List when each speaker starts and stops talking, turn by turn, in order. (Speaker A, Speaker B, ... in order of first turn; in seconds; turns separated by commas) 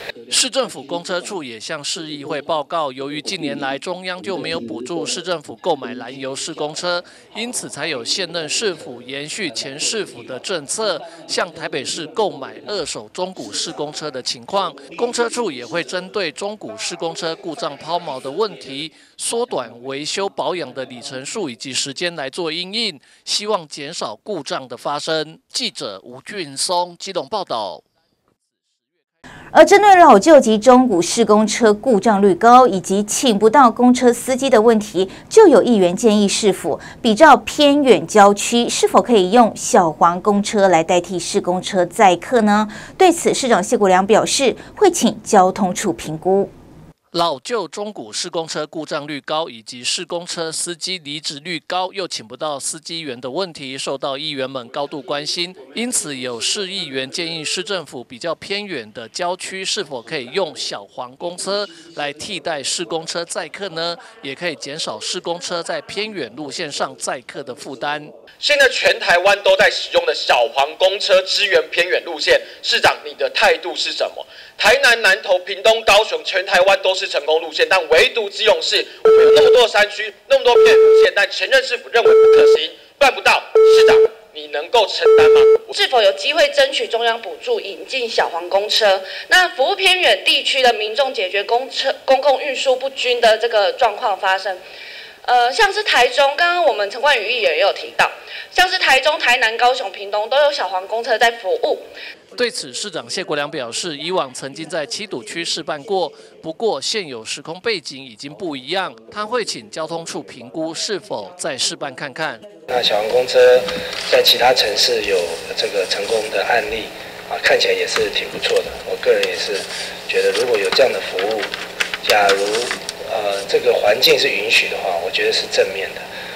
Speaker A: 0.3-27.8, Speaker B: 29.5-46.5, Speaker A: 47.1-68.1, Speaker C: 68.4-85.7, Speaker D: 85.7-94.6, Speaker D: 95.2-101.9, Speaker A: 102.4-112.5, Speaker E: 112.7-121.5, Speaker E: 122.0-126.0